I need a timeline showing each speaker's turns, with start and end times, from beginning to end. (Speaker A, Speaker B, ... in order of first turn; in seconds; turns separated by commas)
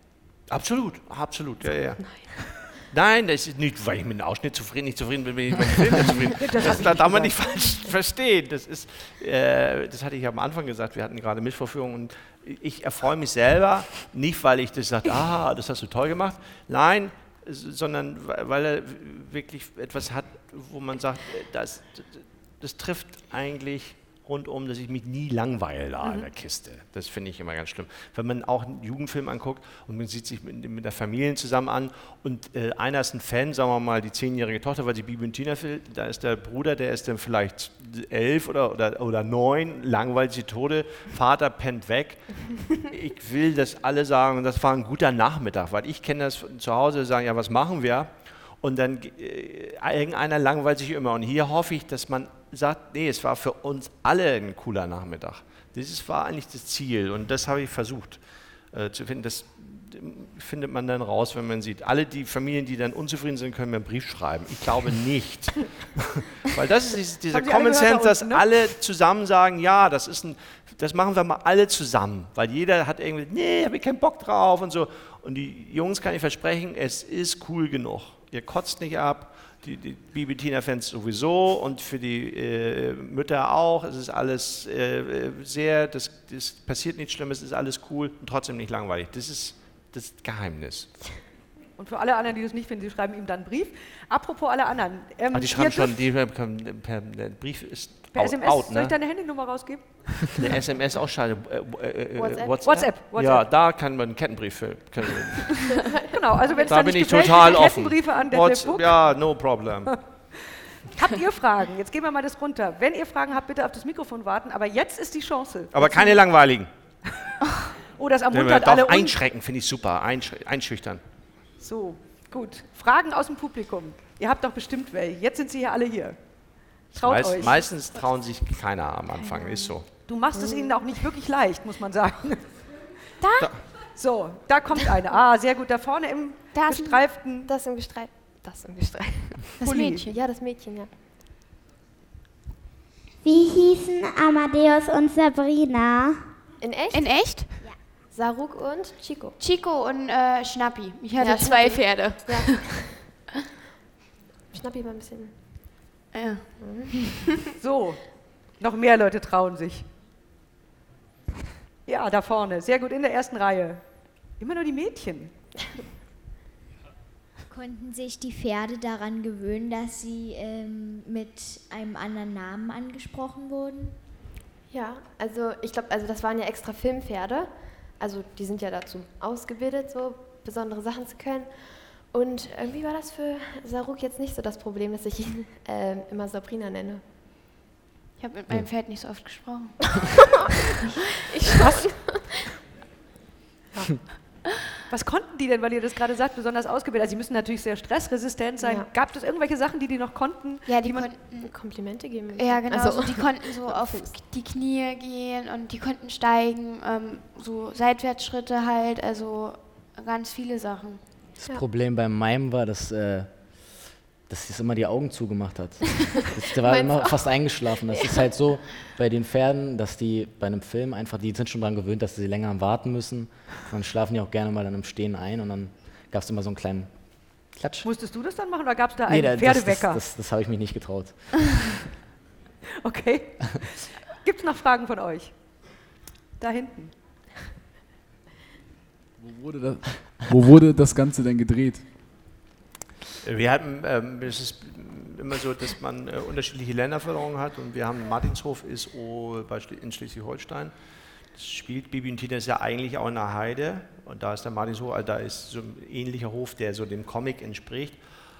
Speaker A: 0.5-90.9, Speaker B: 2.0-2.3, Speaker C: 6.4-7.8, Speaker C: 26.0-26.3, Speaker C: 67.3-68.5, Speaker C: 91.8-96.0, Speaker A: 95.3-99.0, Speaker C: 98.1-100.5, Speaker A: 100.3-105.7, Speaker B: 102.2-102.8, Speaker C: 102.6-103.5, Speaker B: 105.8-106.0, Speaker C: 106.1-116.2, Speaker A: 106.6-109.9, Speaker A: 115.7-116.7, Speaker C: 118.0-119.2, Speaker A: 118.3-121.0, Speaker C: 121.6-127.6, Speaker A: 127.0-129.9, Speaker B: 129.2-129.7, Speaker C: 130.1-132.6, Speaker B: 130.3-130.8, Speaker D: 133.2-133.5, Speaker C: 133.8-137.5, Speaker D: 136.5-137.0, Speaker B: 137.5-139.5, Speaker C: 139.6-140.1, Speaker D: 139.6-140.2, Speaker B: 140.0-140.9, Speaker E: 143.2-146.2, Speaker B: 146.6-149.4, Speaker D: 146.9-147.5, Speaker D: 149.4-152.7, Speaker B: 151.2-153.1, Speaker B: 154.5-155.8, Speaker D: 156.1-156.9, Speaker B: 156.6-157.3, Speaker C: 157.6-159.9, Speaker C: 161.9-163.8, Speaker C: 164.4-165.3, Speaker E: 167.5-174.0, Speaker B: 174.7-187.0, Speaker D: 188.2-190.1, Speaker B: 191.3-192.5, Speaker C: 194.9-201.1, Speaker B: 198.6-198.9, Speaker D: 200.7-201.8, Speaker B: 201.1-204.1, Speaker D: 202.3-211.0, Speaker F: 211.4-227.9, Speaker B: 216.6-218.3, Speaker C: 227.8-230.0, Speaker F: 229.1-231.7, Speaker C: 232.8-235.3, Speaker C: 236.4-236.9, Speaker G: 239.2-241.8, Speaker A: 243.2-258.0